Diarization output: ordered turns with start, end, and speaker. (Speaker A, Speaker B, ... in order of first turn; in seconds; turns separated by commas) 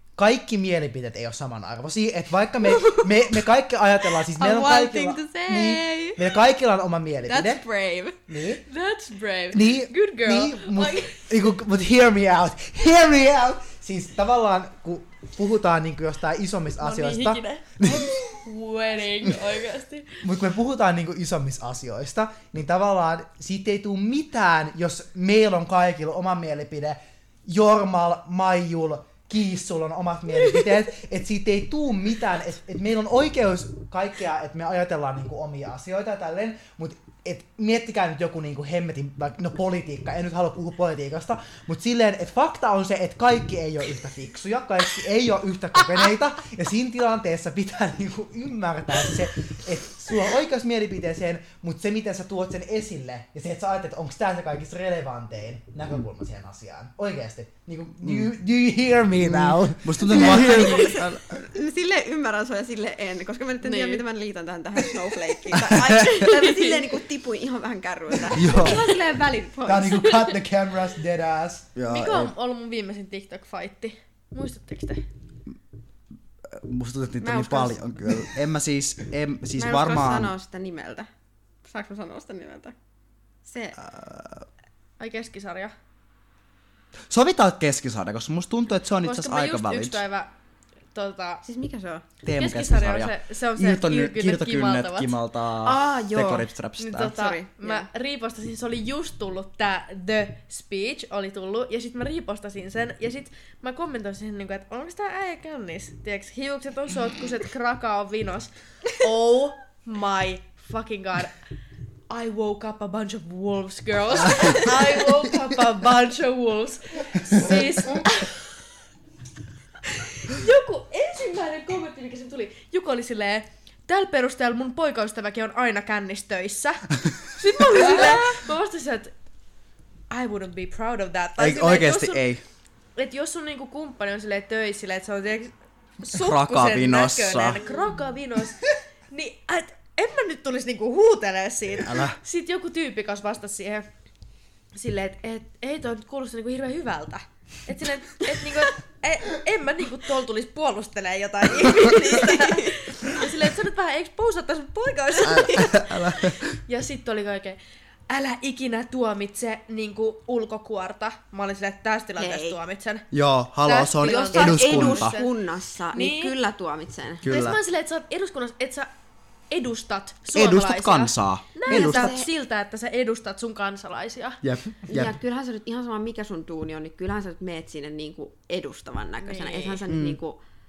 Speaker A: 0.2-7.6, Speaker B: 2.7-3.2, Speaker B: 4.3-6.2, Speaker B: 7.3-8.2, Speaker A: 8.3-8.7, Speaker C: 8.7-11.2, Speaker A: 9.5-18.4, Speaker C: 16.8-20.2, Speaker A: 20.2-61.0, Speaker D: 58.0-58.3, Speaker D: 59.2-61.4, Speaker B: 60.1-70.3, Speaker C: 63.6-64.0, Speaker D: 65.5-66.3, Speaker D: 68.3-68.8, Speaker A: 69.7-71.7, Speaker D: 71.8-72.3, Speaker C: 71.9-75.0, Speaker D: 76.5-80.3, Speaker B: 77.2-77.8, Speaker B: 79.6-81.1, Speaker B: 81.6-82.8, Speaker B: 83.5-83.8, Speaker D: 83.8-84.5, Speaker C: 85.0-85.7, Speaker D: 87.1-90.0, Speaker C: 89.0-90.3, Speaker C: 90.9-91.4, Speaker B: 91.4-92.0, Speaker D: 92.2-97.2, Speaker C: 92.4-95.2, Speaker B: 95.6-97.9, Speaker C: 96.8-111.3, Speaker C: 112.1-118.4, Speaker C: 119.9-129.1, Speaker C: 130.1-132.3, Speaker D: 131.4-132.4, Speaker C: 133.0-143.9, Speaker D: 136.1-137.6, Speaker D: 141.8-142.2, Speaker C: 144.7-157.6, Speaker B: 151.8-152.9, Speaker D: 155.2-156.6, Speaker C: 158.1-163.1, Speaker B: 162.2-162.6, Speaker D: 163.1-165.2, Speaker C: 163.6-165.3, Speaker B: 164.0-167.3, Speaker C: 165.9-166.3, Speaker D: 167.2-167.6, Speaker C: 167.2-168.9, Speaker C: 169.5-174.4, Speaker D: 170.3-172.1, Speaker B: 171.7-172.3, Speaker D: 174.4-175.2, Speaker B: 174.9-180.4, Speaker C: 179.2-179.8, Speaker D: 179.9-180.2